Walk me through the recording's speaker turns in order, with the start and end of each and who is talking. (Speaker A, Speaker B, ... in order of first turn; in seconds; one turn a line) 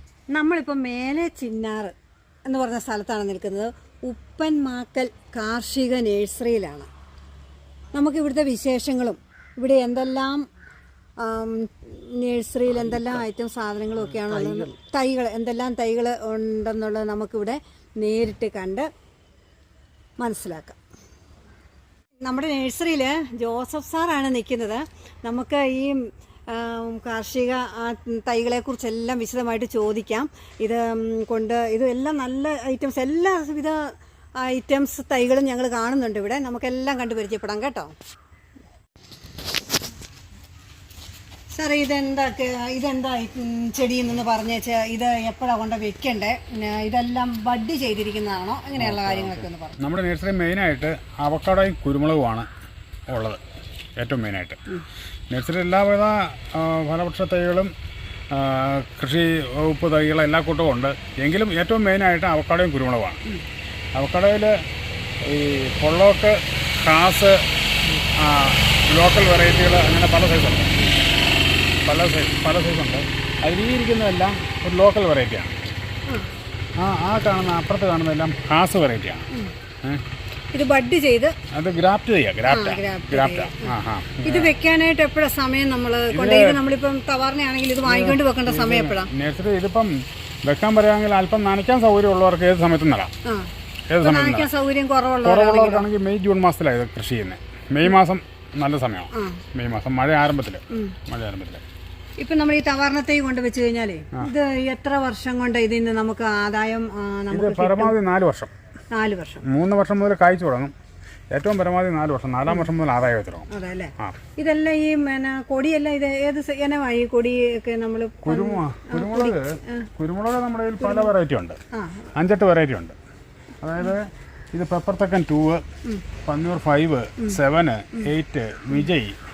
Speaker A: 0.3-1.9
Speaker A: 2.5-6.9
Speaker A: 7.9-10.4
Speaker A: 11.2-18.9
Speaker A: 20.2-20.8
Speaker A: 22.2-33.8
Speaker A: 34.4-37.9
Speaker A: 41.5-49.8
Speaker B: 48.8-52.5
Speaker B: 53.1-53.4
Speaker B: 54.0-54.6
Speaker B: 55.3-57.7
Speaker B: 58.3-63.2
Speaker B: 63.9-64.5
Speaker B: 65.2-67.4
Speaker B: 68.1-70.7
Speaker B: 71.8-75.6
Speaker B: 76.8-79.3
Speaker A: 80.5-81.3
Speaker B: 81.5-84.5
Speaker A: 82.5-83.7
Speaker A: 84.2-89.1
Speaker B: 86.1-86.6
Speaker B: 87.8-89.9
Speaker B: 90.4-93.1
Speaker B: 93.9-94.5
Speaker A: 94.0-95.9
Speaker B: 95.2-101.6
Speaker A: 99.1-99.4
Speaker A: 102.2-107.9
Speaker B: 107.3-108.5
Speaker A: 108.9-109.4
Speaker B: 109.5-110.7
Speaker B: 111.3-113.5
Speaker A: 113.5-119.9
Speaker B: 118.2-121.6
Speaker A: 120.8-121.1
Speaker A: 121.7-122.1
Speaker B: 122.1-123.0
Speaker B: 123.6-125.6
Speaker B: 126.2-129.2